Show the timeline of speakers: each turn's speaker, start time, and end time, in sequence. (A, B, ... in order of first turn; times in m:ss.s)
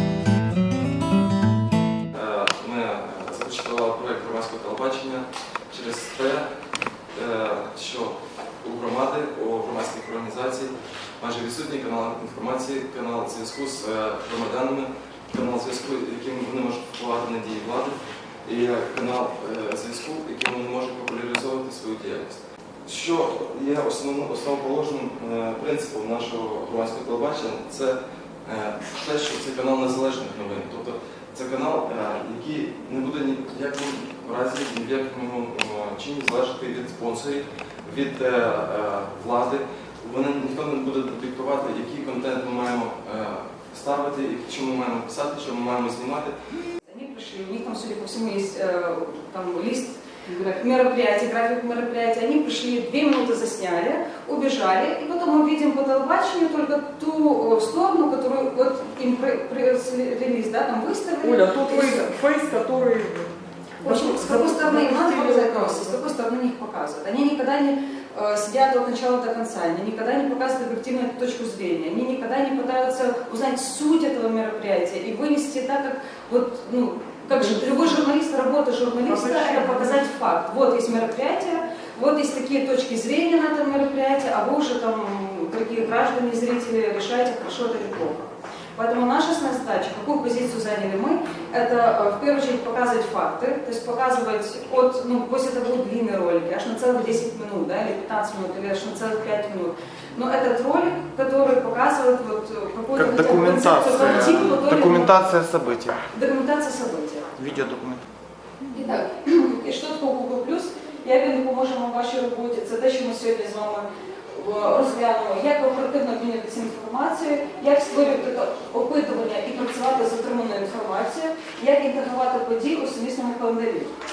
0:02.1-0:06.4 A
0:07.1-0:46.3 A
0:46.8-1:02.1 B
1:01.2-1:06.0 C
1:03.8-1:45.2 B
1:19.0-1:20.0 C
1:43.0-1:46.0 D
1:46.1-1:47.3 B
1:47.4-1:48.0 D
1:48.7-2:03.9 B